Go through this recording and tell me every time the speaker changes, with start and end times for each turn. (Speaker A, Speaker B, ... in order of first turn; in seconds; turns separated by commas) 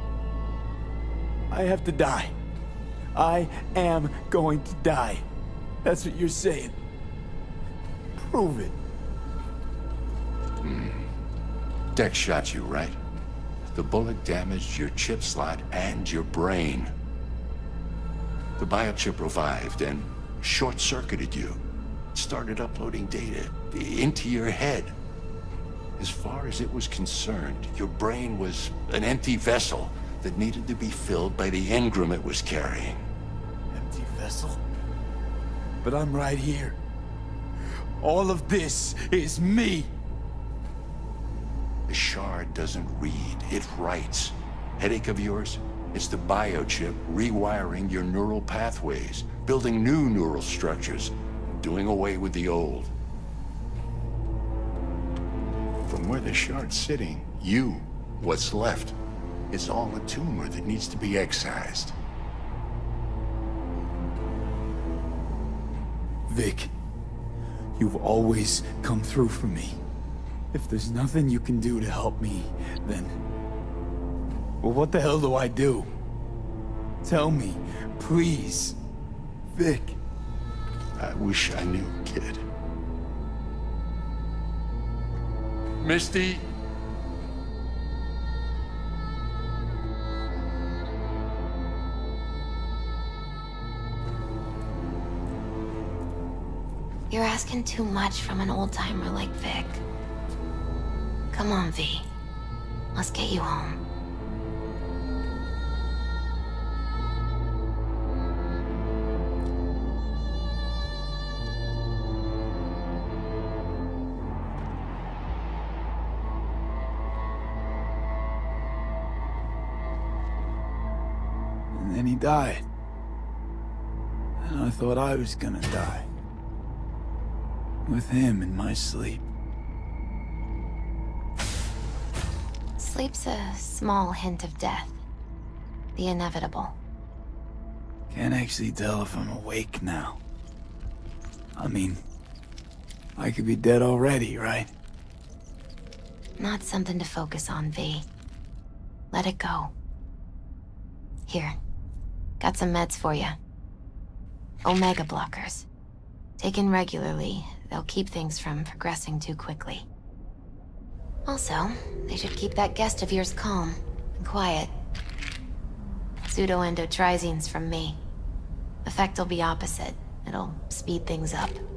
Speaker A: 1.5-2.3, Speaker A: 3.1-5.2, Speaker A: 5.8-6.8, Speaker A: 8.1-8.8, Speaker B: 10.6-11.1, Speaker B: 11.9-13.0, Speaker B: 13.7-16.9, Speaker B: 18.6-21.6, Speaker B: 22.1-24.9, Speaker B: 26.0-33.0, Speaker A: 33.7-34.6, Speaker A: 35.8-36.8, Speaker A: 38.0-39.9, Speaker B: 41.9-52.9, Speaker B: 55.9-59.0, Speaker B: 59.5-62.0, Speaker A: 66.3-66.7, Speaker A: 67.8-69.8, Speaker A: 70.5-73.2, Speaker A: 74.6-75.9, Speaker A: 77.0-78.8, Speaker A: 79.5-80.0, Speaker B: 81.0-82.4, Speaker B: 85.8-86.5, Speaker C: 97.1-99.8, Speaker C: 101.3-102.1, Speaker C: 103.0-103.8, Speaker A: 121.7-122.7, Speaker A: 124.4-126.1, Speaker A: 127.9-129.2, Speaker C: 132.8-135.0, Speaker C: 136.0-136.8, Speaker A: 138.1-140.2, Speaker A: 141.6-142.0, Speaker A: 143.2-144.7, Speaker C: 146.4-148.1, Speaker C: 149.1-149.7, Speaker C: 151.3-151.6, Speaker C: 152.4-153.4, Speaker C: 154.7-155.7, Speaker C: 156.4-159.9, Speaker C: 161.3-164.7, Speaker C: 166.3-168.0, Speaker C: 168.8-171.6